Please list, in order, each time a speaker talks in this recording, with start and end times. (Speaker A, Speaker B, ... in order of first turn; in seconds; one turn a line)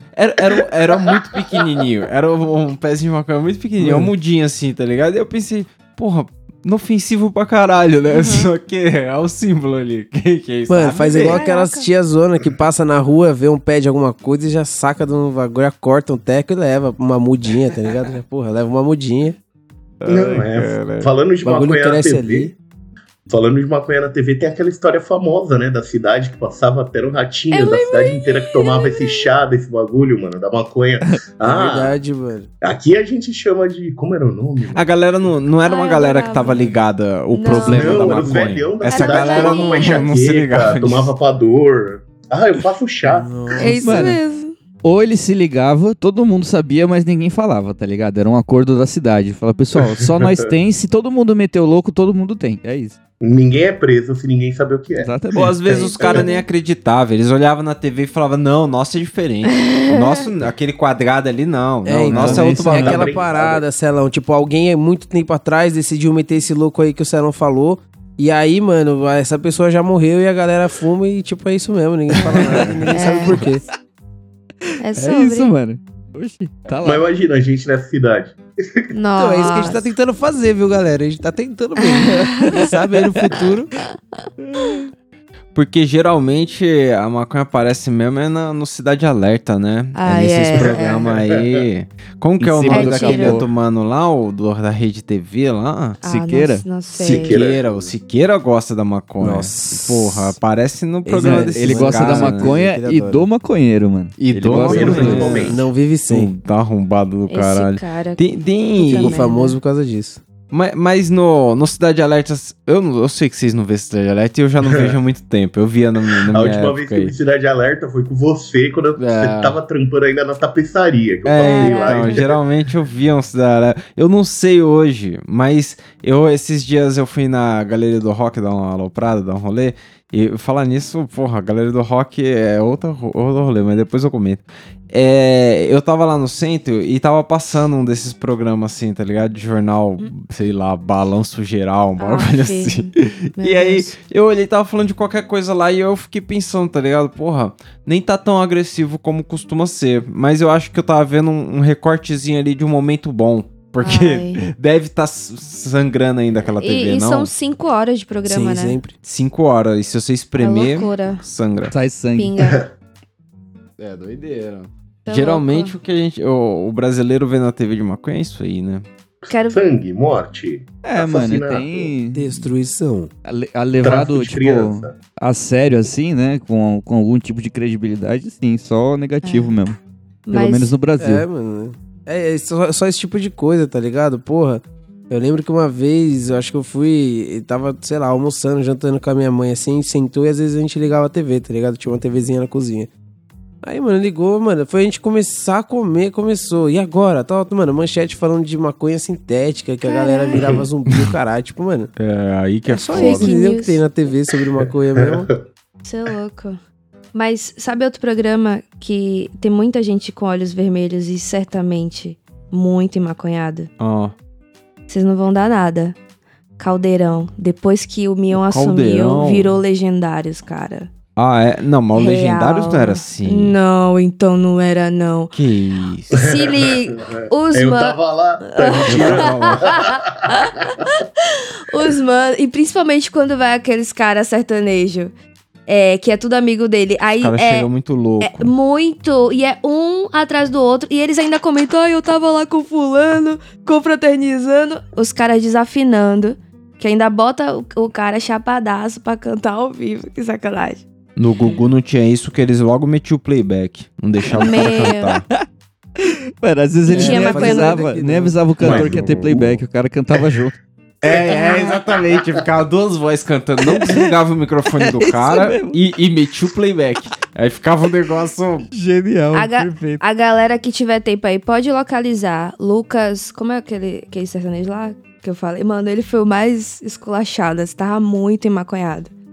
Speaker A: 0.1-11.4
Speaker B: 3.8-4.1
Speaker C: 8.1-8.5
Speaker B: 10.7-19.4
Speaker C: 11.2-11.9
Speaker A: 20.0-21.1
Speaker D: 20.1-22.5
Speaker B: 21.4-22.5
Speaker D: 23.3-32.0
Speaker C: 27.5-29.2
Speaker B: 31.4-32.5
Speaker D: 32.6-34.9
Speaker A: 34.7-41.1
Speaker C: 35.6-36.6
Speaker C: 37.3-38.1
Speaker D: 37.5-43.3
Speaker C: 38.9-40.0
Speaker B: 43.0-44.2
Speaker C: 43.6-44.5
Speaker E: 43.8-44.2
Speaker E: 44.8-53.0
Speaker D: 50.1-50.5
Speaker D: 53.2-55.1
Speaker E: 55.0-56.0
Speaker A: 55.4-63.3
Speaker D: 56.0-56.3
Speaker C: 59.5-60.2
Speaker B: 61.9-73.6
Speaker E: 62.1-62.9
Speaker D: 62.8-63.6
Speaker C: 72.2-73.4
Speaker A: 72.5-73.4
Speaker C: 74.8-75.5
Speaker E: 75.0-77.1
Speaker D: 76.8-78.9
Speaker C: 78.9-79.9
Speaker B: 79.2-83.7
Speaker C: 82.0-82.7
Speaker E: 84.4-84.9
Speaker A: 85.5-96.0
Speaker C: 90.0-91.1
Speaker D: 90.5-91.6
Speaker E: 92.4-93.5
Speaker C: 92.7-93.5
Speaker C: 96.0-97.4
Speaker E: 96.0-96.7
Speaker A: 96.9-102.6
Speaker D: 97.0-97.9
Speaker B: 99.2-100.4
Speaker B: 101.1-103.3
Speaker E: 101.2-105.4
Speaker A: 104.2-109.2
Speaker B: 104.5-106.3
Speaker D: 104.5-105.6
Speaker C: 107.3-108.3
Speaker C: 108.8-109.6
Speaker B: 108.9-110.2
Speaker A: 110.5-117.1
Speaker D: 116.2-122.5
Speaker A: 119.0-119.6
Speaker A: 121.2-157.3
Speaker C: 121.4-122.3
Speaker C: 142.0-143.9
Speaker C: 153.8-154.4
Speaker C: 156.6-158.8
Speaker B: 158.2-158.9
Speaker A: 159.0-161.7
Speaker C: 160.4-161.2
Speaker E: 161.7-162.4
Speaker C: 162.2-162.6
Speaker A: 163.8-168.8
Speaker C: 165.1-165.8
Speaker C: 169.3-169.6
Speaker D: 169.5-171.9
Speaker E: 170.8-172.4
Speaker B: 172.1-173.1
Speaker E: 173.3-179.8
Speaker D: 173.8-174.9
Speaker C: 179.2-179.6
Speaker C: 180.3-180.7
Speaker E: 180.3-181.2
Speaker B: 181.0-192.9
Speaker B: 193.6-201.9
Speaker C: 199.8-200.4
Speaker A: 200.5-201.1
Speaker A: 202.0-203.4
Speaker B: 202.7-205.3
Speaker C: 202.9-203.8
Speaker D: 205.0-205.4
Speaker C: 205.8-206.6
Speaker C: 207.1-213.7
Speaker A: 213.8-214.1
Speaker C: 214.9-216.0
Speaker C: 216.6-220.9
Speaker A: 218.3-219.6
Speaker A: 221.2-223.6
Speaker C: 221.9-225.3
Speaker A: 225.3-226.1
Speaker C: 226.1-235.1
Speaker D: 226.1-230.5
Speaker A: 228.8-229.6
Speaker C: 235.7-250.8
Speaker A: 237.2-238.5
Speaker A: 251.2-255.3
Speaker C: 254.3-255.2
Speaker E: 256.0-260.5
Speaker C: 256.9-257.8
Speaker B: 256.9-258.6
Speaker A: 258.6-259.4
Speaker D: 258.6-259.5
Speaker A: 261.0-268.7
Speaker C: 261.3-261.8
Speaker E: 263.7-264.1
Speaker E: 264.8-265.8
Speaker E: 268.7-270.0
Speaker C: 269.3-279.1